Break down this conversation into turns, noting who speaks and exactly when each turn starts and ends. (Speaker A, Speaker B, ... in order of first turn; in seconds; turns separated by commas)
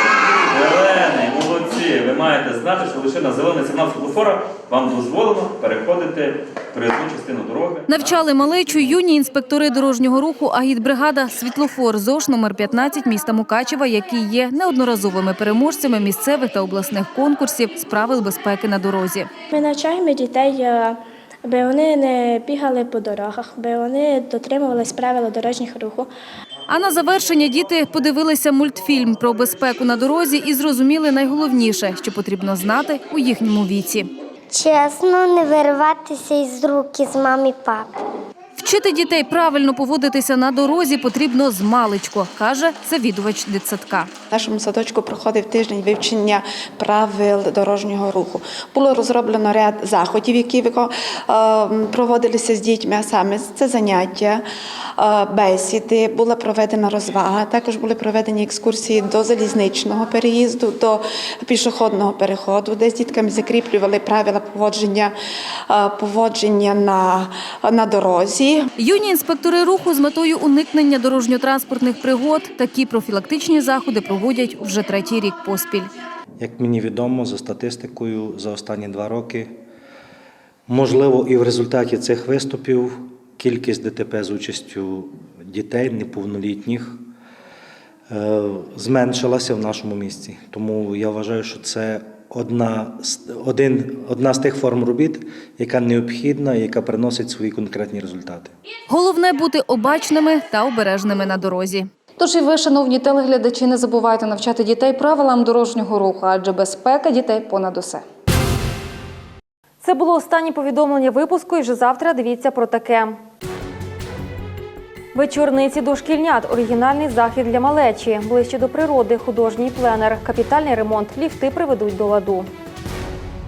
Speaker A: 0.5-8.2, Speaker B: 7.9-19.3, Speaker C: 19.5-26.1, Speaker B: 26.7-34.1, Speaker D: 34.5-37.9, Speaker B: 38.6-44.1, Speaker E: 44.3-54.5, Speaker E: 55.0-65.2, Speaker E: 65.7-68.7, Speaker B: 68.8-75.9, Speaker F: 76.4-79.6, Speaker F: 80.7-87.0, Speaker F: 88.1-98.5, Speaker B: 98.9-108.0, Speaker G: 109.8-113.2, Speaker G: 115.1-122.5